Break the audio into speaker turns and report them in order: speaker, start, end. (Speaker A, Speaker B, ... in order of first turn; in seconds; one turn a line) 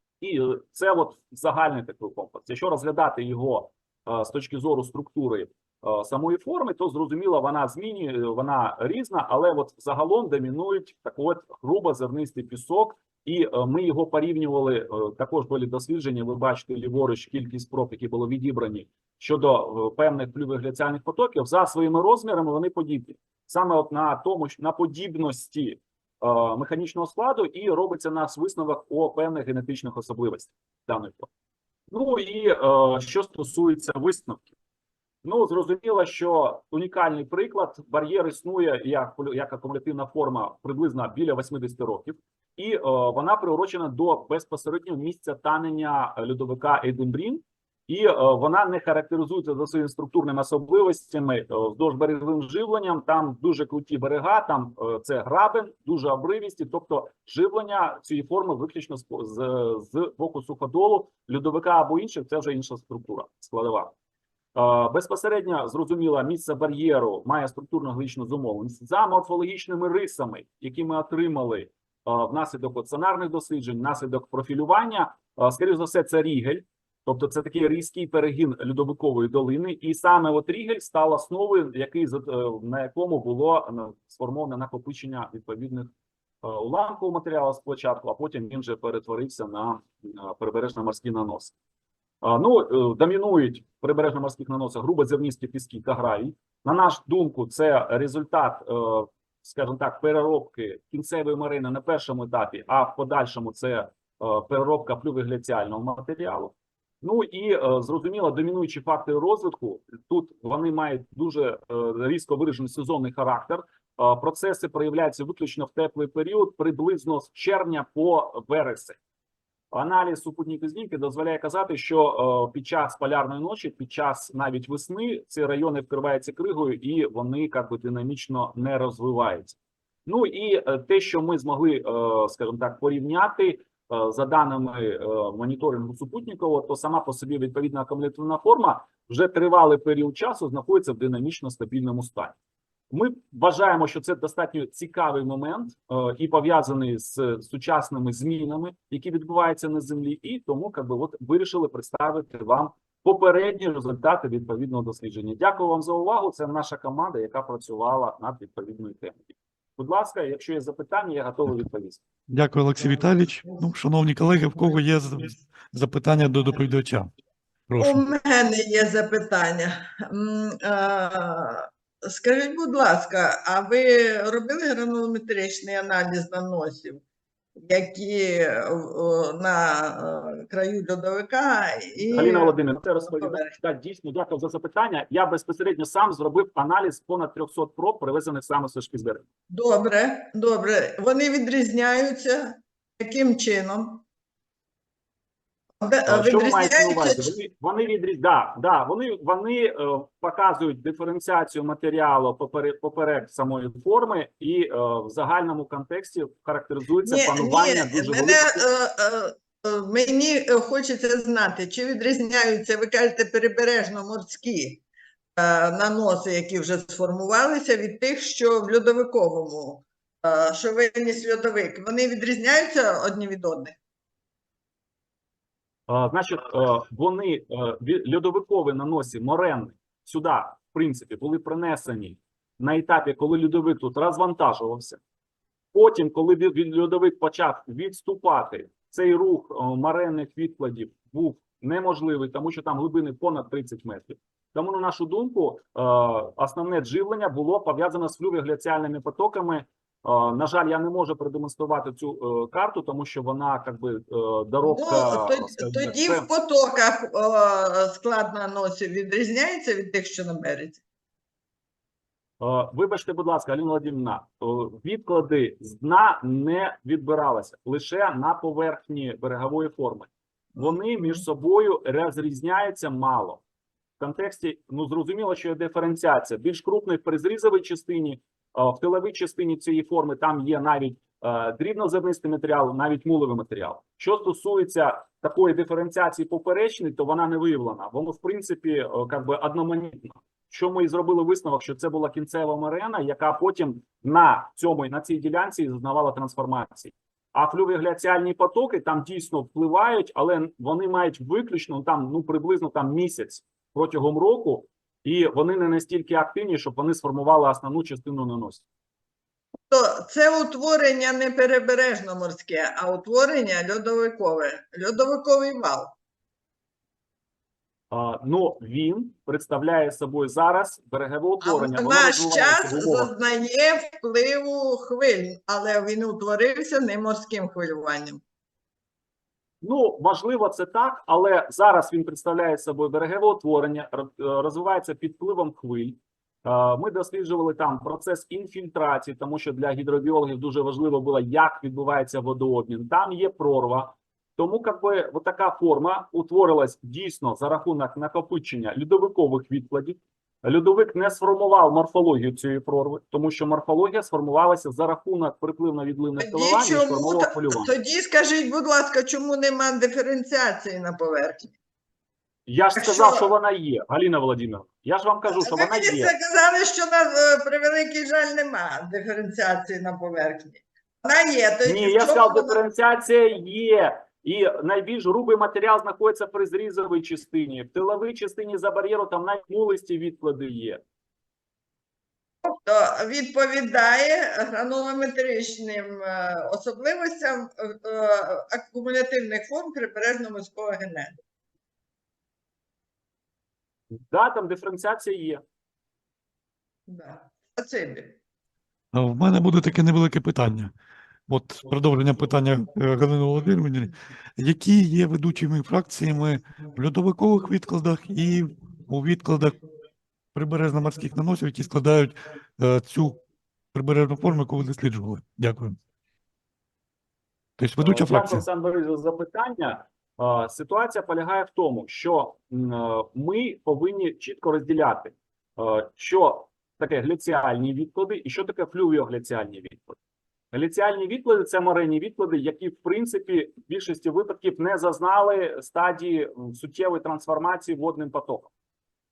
Speaker A: 0.2-31.3
Speaker A: 31.9-34.5
Speaker A: 35.2-63.9
Speaker A: 64.5-85.9
Speaker A: 86.4-91.5
Speaker A: 92.2-119.0
Speaker A: 119.7-142.3
Speaker A: 142.9-162.0
Speaker B: 162.3-167.1
Speaker B: 167.7-168.1
Speaker C: 167.8-177.0
Speaker C: 177.6-183.5
Speaker A: 182.1-189.2
Speaker C: 189.5-194.0
Speaker C: 195.8-197.3
Speaker A: 196.1-208.6
Speaker C: 207.0-214.8
Speaker C: 215.3-223.8
Speaker A: 225.9-235.0
Speaker A: 235.7-256.3
Speaker C: 254.6-260.8
Speaker A: 262.4-273.4
Speaker C: 270.6-271.2
Speaker A: 274.0-308.6
Speaker C: 309.7-315.9
Speaker A: 317.9-323.1
Speaker C: 321.4-328.2
Speaker A: 329.6-357.7
Speaker C: 356.2-361.5
Speaker A: 362.4-366.1
Speaker C: 362.8-363.3
Speaker C: 365.3-372.6
Speaker A: 371.6-380.8
Speaker C: 382.4-391.1
Speaker A: 393.9-395.4
Speaker C: 396.9-398.1
Speaker B: 398.9-400.7
Speaker B: 401.3-409.6
Speaker B: 410.3-413.2
Speaker B: 413.7-415.8
Speaker B: 417.6-418.4
Speaker A: 417.8-430.0
Speaker A: 430.5-438.5